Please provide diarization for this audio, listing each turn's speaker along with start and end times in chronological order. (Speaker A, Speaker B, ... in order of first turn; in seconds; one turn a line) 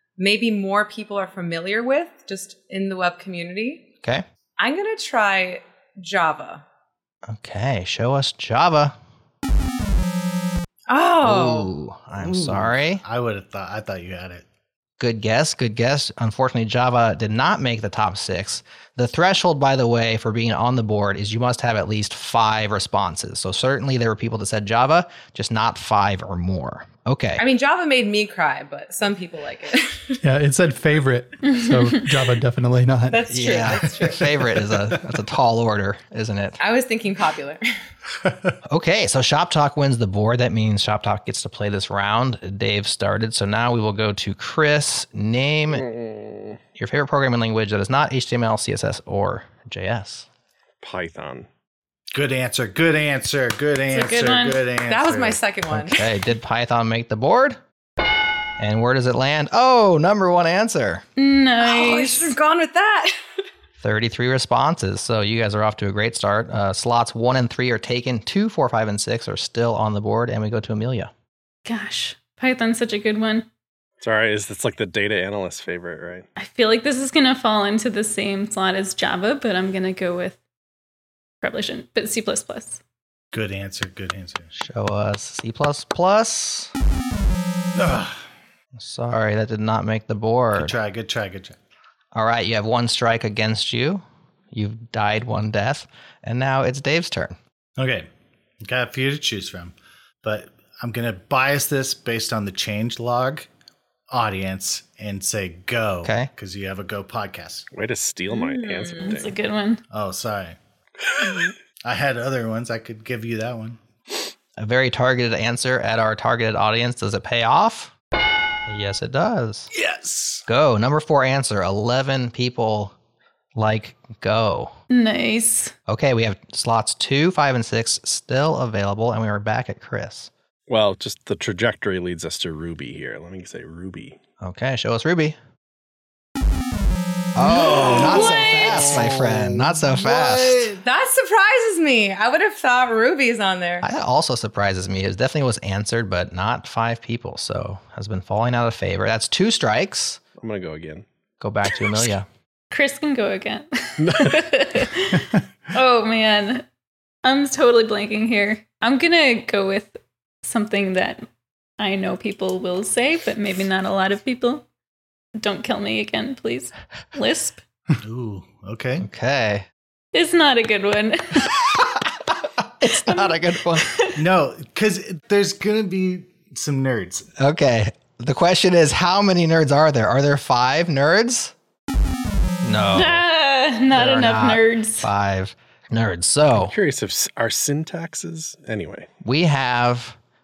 Speaker A: 0.2-3.9
Speaker A: 4.6-6.6
Speaker B: 7.3-8.9
Speaker A: 10.9-11.7
Speaker B: 11.2-13.0
Speaker C: 12.2-14.4
Speaker B: 15.0-27.4
Speaker A: 27.4-30.2
Speaker D: 30.2-33.5
Speaker E: 31.4-31.9
Speaker A: 33.1-34.4
Speaker B: 33.3-36.6
Speaker A: 36.6-37.6
Speaker B: 38.7-45.9
Speaker F: 45.7-46.6
Speaker B: 46.8-50.3
Speaker F: 50.8-51.5
Speaker C: 52.1-55.4
Speaker E: 53.9-54.6
Speaker A: 54.9-56.0
Speaker B: 55.7-57.6
Speaker B: 58.6-61.0
Speaker E: 61.2-62.4
Speaker A: 61.6-63.2
Speaker B: 63.8-71.1
Speaker E: 71.7-73.5
Speaker F: 74.0-76.2
Speaker E: 76.4-80.4
Speaker E: 81.4-82.8
Speaker C: 83.3-84.5
Speaker B: 84.5-86.7
Speaker C: 87.7-88.2
Speaker B: 88.8-90.7
Speaker C: 90.5-91.6
Speaker B: 92.1-97.3
Speaker C: 97.8-98.1
Speaker C: 98.6-103.5
Speaker C: 104.1-107.7
Speaker B: 106.0-106.3
Speaker F: 107.7-109.3
Speaker A: 108.3-109.1
Speaker E: 109.0-109.8
Speaker C: 109.9-110.6
Speaker C: 111.8-113.8
Speaker B: 114.6-117.9
Speaker B: 118.7-119.7
Speaker C: 119.7-120.4
Speaker B: 120.5-122.9
Speaker B: 123.5-124.7
Speaker E: 124.9-125.7
Speaker B: 125.9-130.3
Speaker F: 130.7-134.2
Speaker B: 134.4-135.4
Speaker B: 137.3-140.7
Speaker C: 137.4-140.8
Speaker A: 140.7-143.8
Speaker B: 143.8-150.2
Speaker F: 150.4-151.0
Speaker B: 151.4-152.2
Speaker E: 152.7-156.6
Speaker F: 154.0-154.5
Speaker E: 157.2-161.2
Speaker E: 161.8-164.6
Speaker E: 165.4-167.6
Speaker C: 168.0-169.1
Speaker B: 169.0-169.7
Speaker E: 170.1-171.6
Speaker B: 172.8-173.9
Speaker C: 174.1-177.3
Speaker B: 177.4-181.5
Speaker B: 182.6-183.2
Speaker E: 182.9-185.1
Speaker B: 183.9-186.7
Speaker F: 186.5-189.1
Speaker B: 189.2-190.2